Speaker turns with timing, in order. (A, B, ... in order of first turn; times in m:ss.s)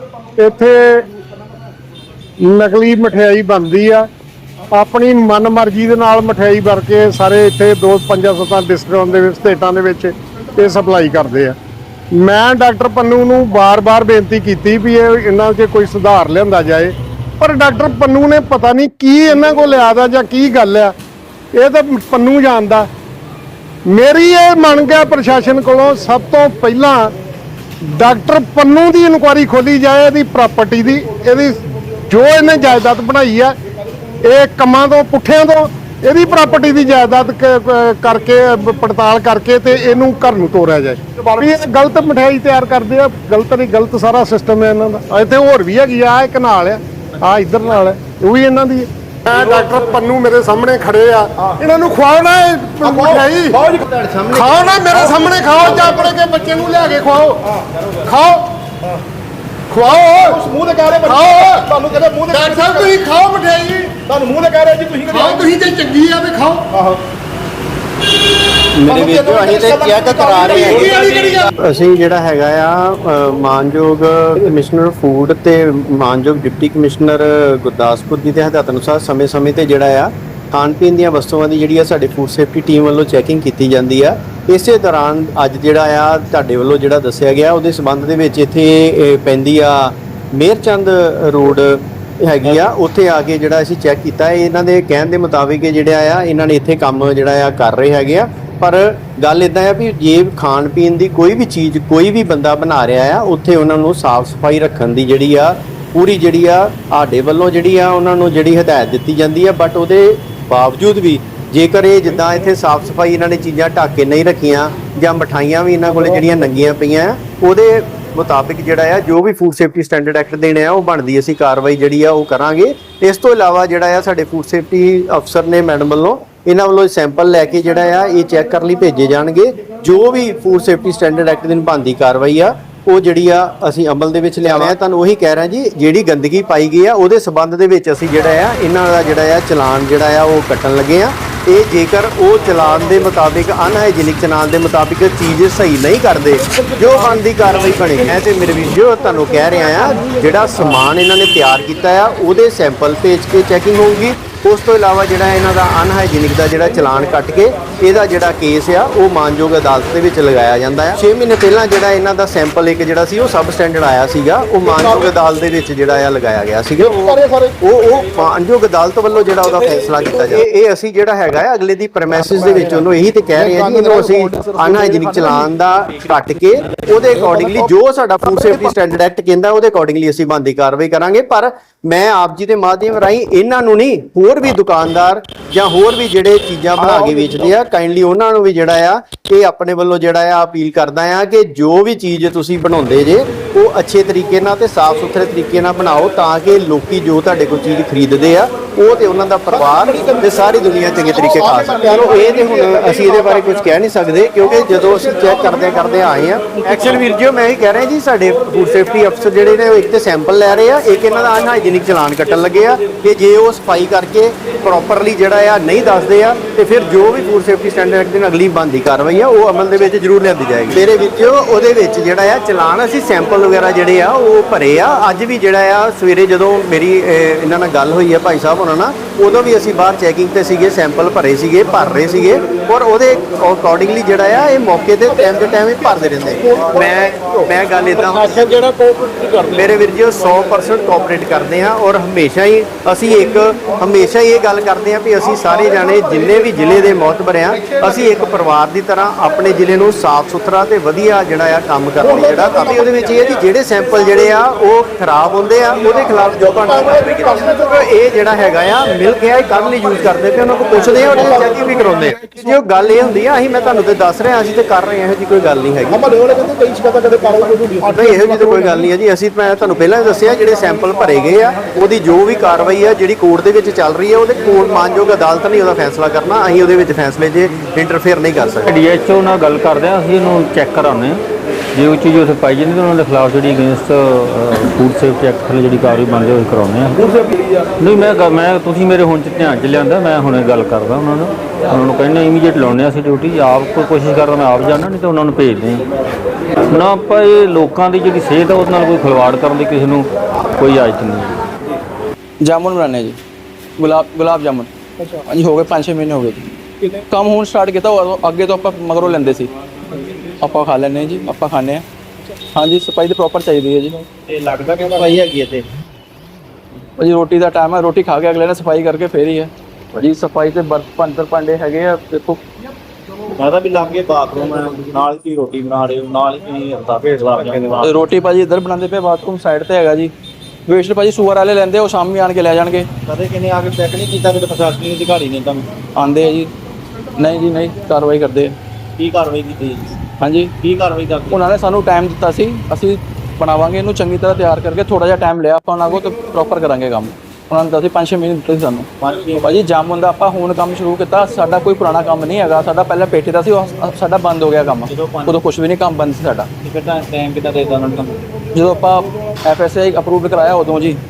0:00.4-0:01.1 A
0:02.4-0:04.1 A
0:04.7-0:11.6 A
0:12.1-0:20.9 A
0:21.5-0:22.9 A
0:23.9-0:27.1 A
0:27.8-0:33.6 A
0:34.2-0:53.6 A
0:52.8-0:54.3 B
0:54.3-0:57.4 A
0:55.6-0:56.1 B
0:58.0-0:58.5 A
0:59.7-1:00.4 A
1:00.2-1:02.9 B
1:01.0-1:01.7 A
1:02.3-1:04.0 A
1:04.1-1:05.5 B
1:05.1-1:06.7 A
1:06.7-1:07.0 B
1:08.8-1:11.0 C
1:08.9-1:10.6 B
1:10.6-1:11.5 A
1:11.6-3:58.6 C
2:46.9-2:47.5 B
2:53.4-2:55.3 B
2:57.3-2:57.5 B
3:19.9-3:20.2 B
3:21.3-3:23.2 B
3:58.6-3:59.5 B
3:59.5-4:26.0 C
4:21.3-4:21.6 B
4:25.9-4:28.3 B
4:27.9-4:38.7 C
4:38.6-4:41.2 D
4:41.8-4:55.9 D
4:56.7-5:01.3 D
5:02.4-5:03.2 E
5:03.8-5:06.5 E
5:07.1-5:09.5 E
5:10.4-5:11.8 E
5:12.5-5:14.0 E
5:14.3-5:15.6 F
5:17.0-5:22.4 E
5:23.4-5:27.9 F
5:27.8-5:30.1 E
5:30.7-5:32.9 E
5:33.1-5:35.7 F
5:35.9-5:36.5 E
5:37.2-5:38.6 E
5:39.0-5:39.9 F
5:40.2-5:40.5 E
5:40.6-5:41.4 F
5:41.3-5:56.5 E
5:49.0-5:49.4 F
5:54.9-5:55.3 F
5:56.6-5:58.2 F
5:58.5-6:01.0 E